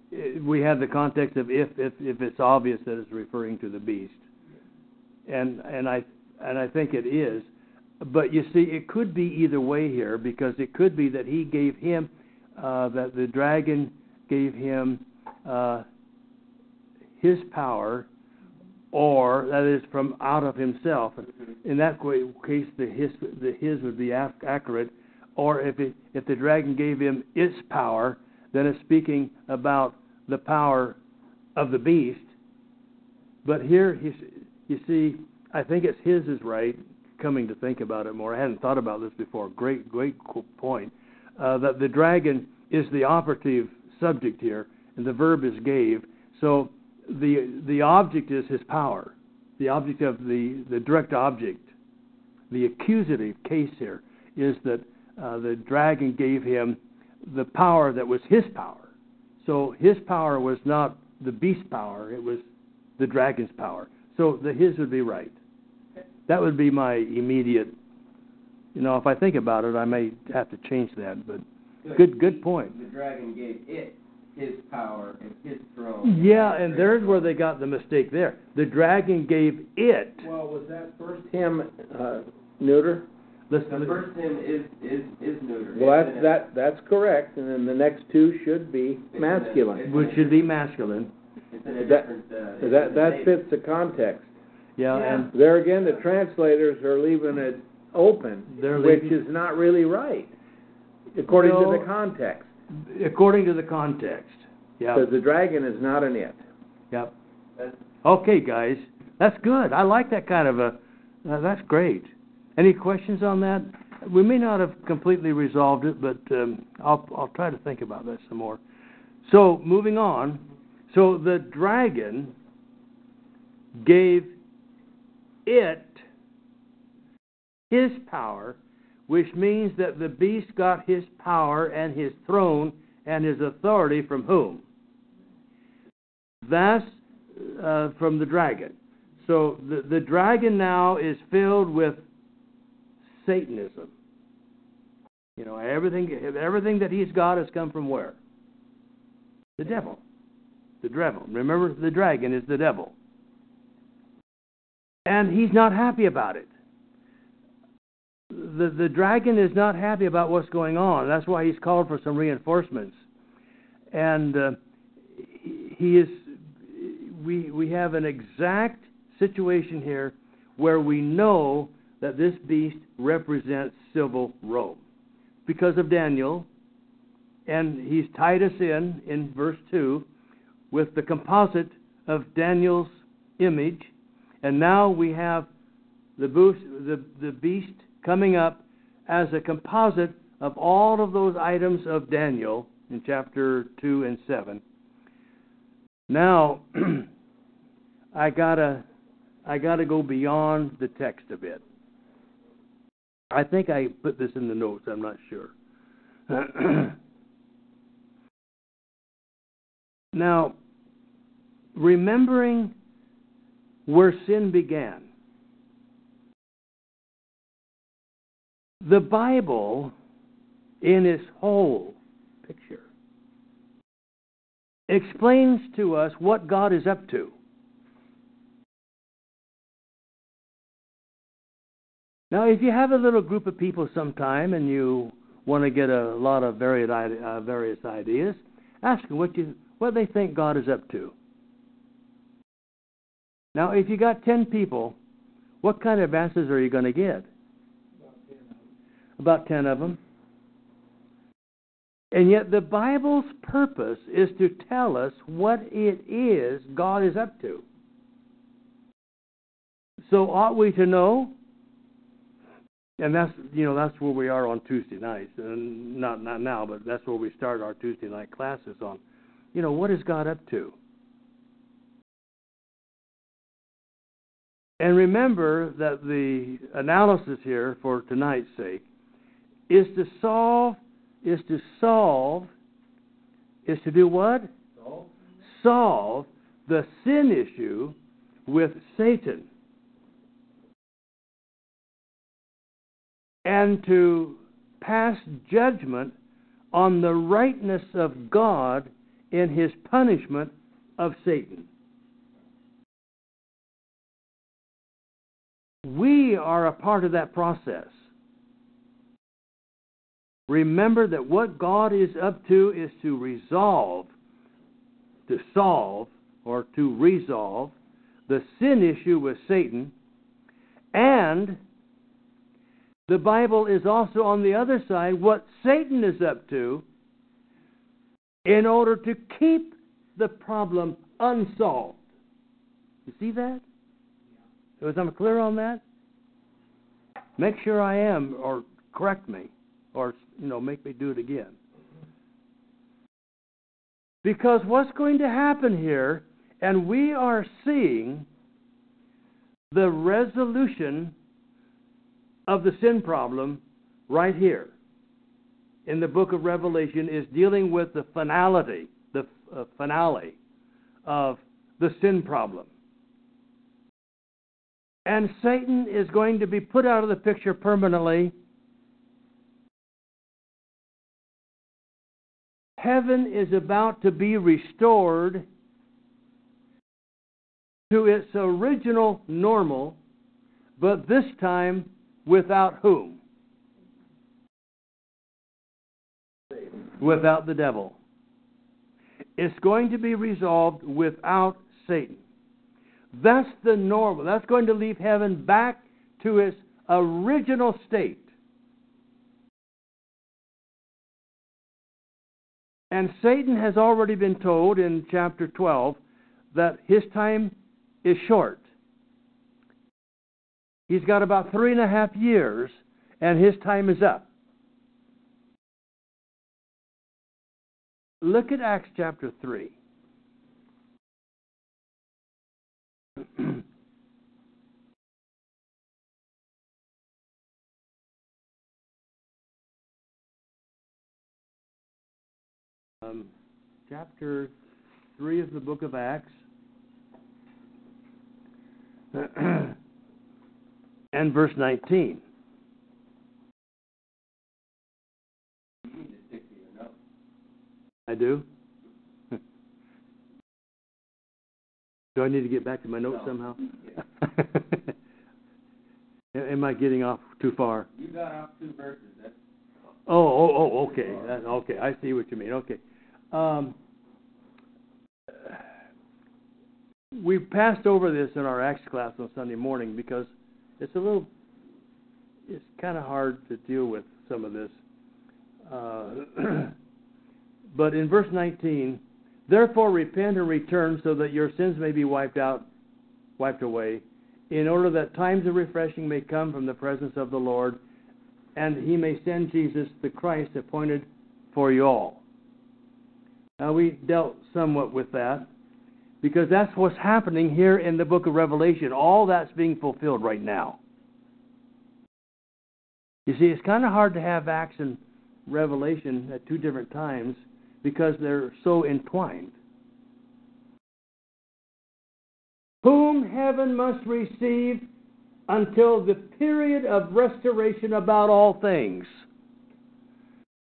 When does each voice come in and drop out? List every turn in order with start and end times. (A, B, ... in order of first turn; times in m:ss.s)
0:00.1-0:04.2 A
0:05.3-0:07.5 A
0:08.0-0:15.9 A
0:17.2-0:18.1 A
0:18.9-0:31.0 A
0:31.6-0:32.3 A
0:33.4-0:51.7 A
0:52.5-0:58.9 A
0:59.4-1:02.4 A
1:03.0-1:05.3 A
1:06.3-1:07.8 A
1:08.8-1:11.4 A
1:11.8-1:17.2 B
1:12.0-1:12.8 A
1:16.0-1:20.3 A
1:20.2-1:23.1 C
1:23.5-1:24.0 A
1:23.7-1:26.4 B
1:25.7-1:29.8 C
1:29.1-1:30.3 B
1:29.8-1:31.1 A
1:31.5-1:33.4 B
1:31.7-1:34.3 C
1:34.8-1:35.3 A
1:35.3-1:40.3 C
1:38.5-1:39.2 A
1:41.2-1:42.5 C
1:41.3-1:41.9 A
1:42.7-1:45.1 A
1:44.9-1:46.4 C
1:48.0-1:58.6 A
1:59.2-2:02.3 A
2:03.8-2:04.4 A
2:05.4-2:06.0 A
2:07.7-2:08.6 A
2:09.1-2:14.6 A
2:16.4-2:22.0 A
2:23.2-2:23.9 A
2:25.4-2:28.2 A
2:29.6-2:30.0 A
2:30.8-2:32.9 A
2:35.1-2:36.5 A
2:38.3-2:43.0 A
2:43.9-2:44.6 A
2:45.2-2:54.8 A
2:55.5-2:56.5 A
2:57.5-3:00.1 A
3:00.7-3:03.9 A
3:04.4-3:05.5 A
3:06.2-3:14.6 A
3:16.1-3:17.1 A
3:18.1-3:18.8 A
3:19.5-3:21.6 A
3:23.3-3:25.5 A
3:26.3-3:27.0 A
3:30.1-3:30.6 A
3:31.8-3:32.7 A
3:33.9-3:35.1 A
3:38.8-3:39.9 A
3:40.8-3:42.8 A
3:44.9-3:47.3 A
3:52.3-4:01.1 A
4:03.6-4:05.0 A
4:05.6-4:07.3 A
4:08.0-4:08.6 C
4:09.2-4:10.0 A
4:12.1-4:17.6 A
4:20.0-4:21.3 A
4:23.0-4:29.0 A
4:29.5-4:30.8 A
4:34.8-4:38.8 A
4:39.7-4:42.5 A
4:43.7-4:44.5 A
4:45.5-4:48.0 A
4:48.5-4:49.5 A
4:53.4-4:56.1 A
4:56.7-5:01.7 A
5:05.8-5:08.0 A
5:10.5-5:14.1 A
5:15.3-5:17.8 A
5:18.3-5:19.9 A
5:20.9-5:21.6 A
5:23.1-5:26.8 A
5:28.4-5:32.0 A
5:33.1-5:33.6 A
5:34.8-5:35.8 A
5:37.4-5:41.6 A
5:44.2-5:48.3 A
5:49.7-5:51.1 A
5:52.5-5:54.7 A
5:55.9-6:00.4 A
6:01.0-6:02.7 A
6:05.1-6:08.3 A
6:12.8-6:15.5 A
6:17.9-6:20.0 A
6:20.8-6:23.2 A
6:27.0-6:28.0 A
6:29.4-6:32.2 A
6:33.1-6:38.3 A
6:42.9-6:46.0 A
6:46.5-6:48.6 A
6:50.9-6:54.3 A
6:58.2-6:59.7 A
7:13.0-7:13.3 A
7:13.9-7:14.5 A
7:15.2-7:16.3 A
7:19.1-7:19.8 A
7:21.1-7:22.2 A
7:25.8-7:26.9 B
7:28.1-7:28.4 A
7:32.2-7:33.7 A
7:34.2-7:34.9 A
7:36.3-7:37.9 A
7:38.0-7:39.3 B
7:40.1-7:42.8 A
7:43.3-7:43.8 A
7:47.1-7:51.3 A
7:52.5-7:54.8 A
7:55.7-7:56.7 A
7:57.7-8:02.7 A
8:03.4-8:07.8 A
8:08.6-8:12.2 A
8:13.6-8:15.5 A
8:16.2-8:20.8 A
8:23.3-8:29.6 A
8:32.8-8:34.9 A
8:35.5-8:39.2 A